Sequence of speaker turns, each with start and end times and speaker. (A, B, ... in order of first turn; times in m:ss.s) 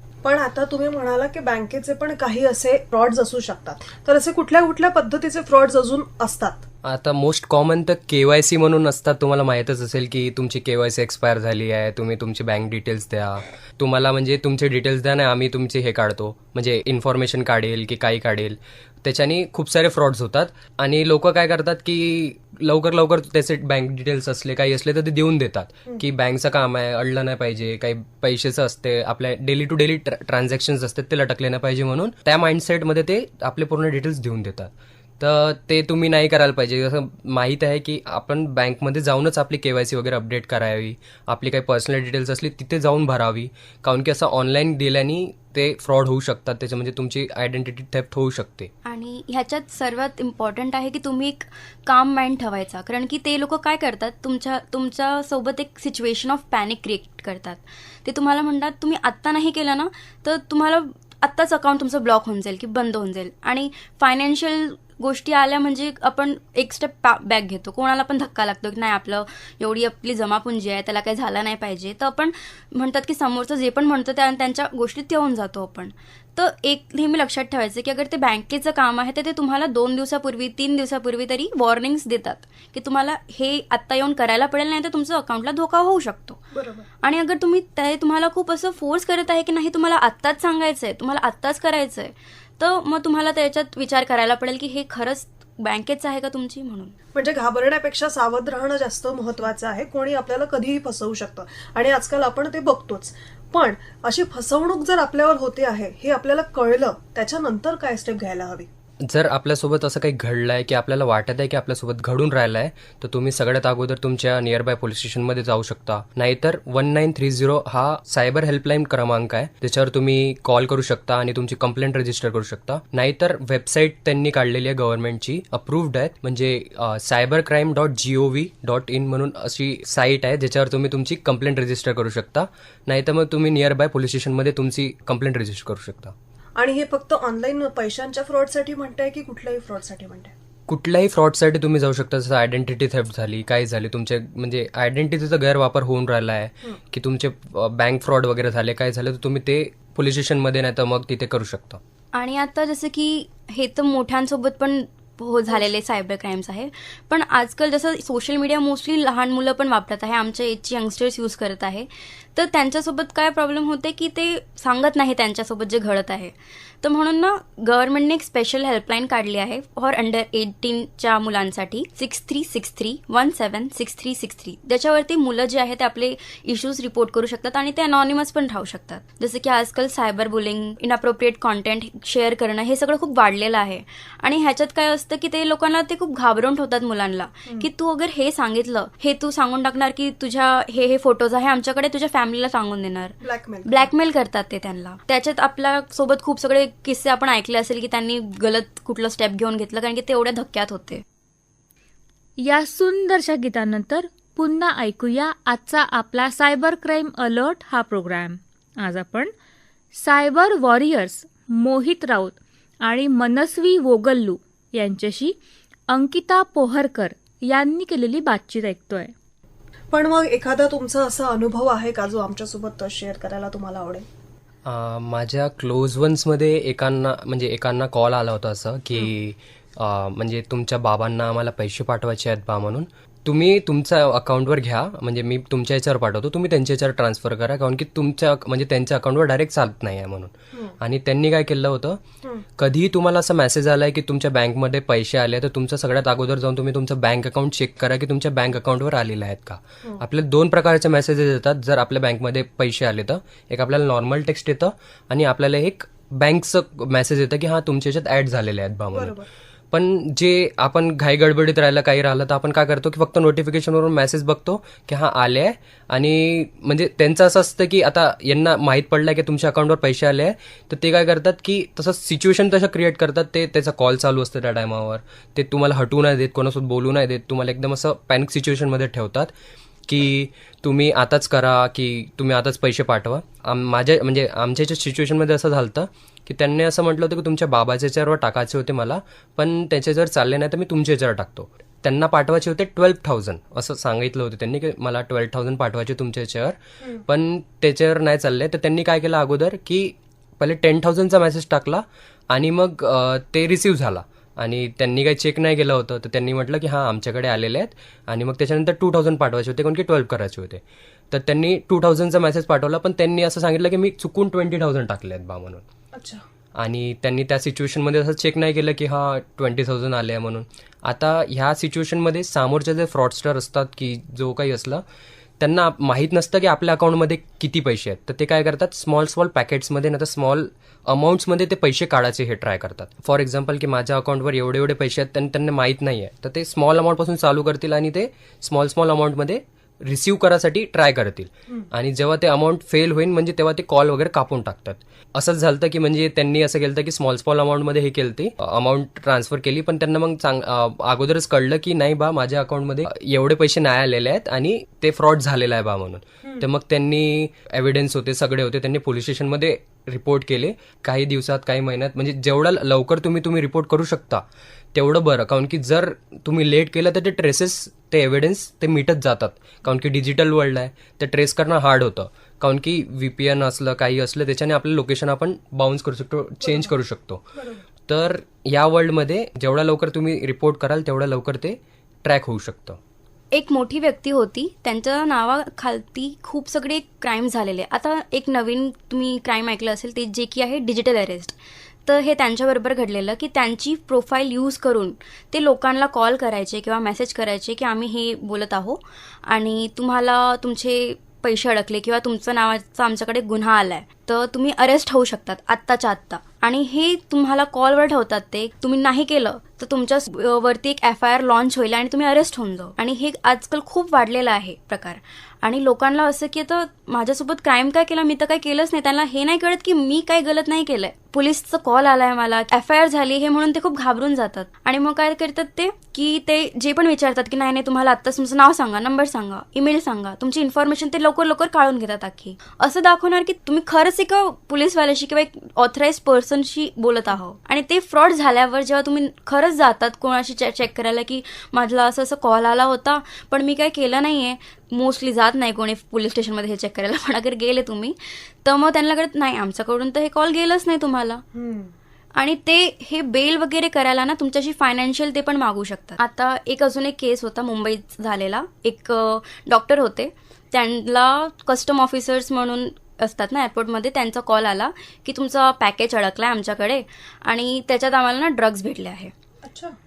0:00.2-0:06.6 A
0:06.8-0:48.7 B
0:48.8-1:26.4 C
1:26.5-1:26.9 A
1:27.0-1:37.0 C
1:37.2-1:48.7 A
1:49.0-2:16.1 B
2:16.6-2:20.3 A
2:20.7-2:31.8 B
2:32.1-3:21.0 C
3:13.2-3:13.9 A
3:22.4-3:29.3 D
3:29.9-3:35.3 D
3:35.9-3:39.1 D
3:39.9-3:44.0 A
3:44.6-4:02.0 B
4:02.6-4:19.2 B
4:18.9-4:19.3 A
4:19.7-4:39.3 B
4:39.9-5:15.6 B
5:15.9-5:16.2 A
5:16.6-5:24.8 B
5:25.4-6:04.2 B
6:04.7-6:17.2 B
6:16.4-6:16.7 A
6:17.4-6:17.6 A
6:17.9-6:22.8 B
6:23.3-7:31.2 C
7:31.4-7:31.7 A
7:32.2-7:49.1 C
7:49.4-7:49.7 A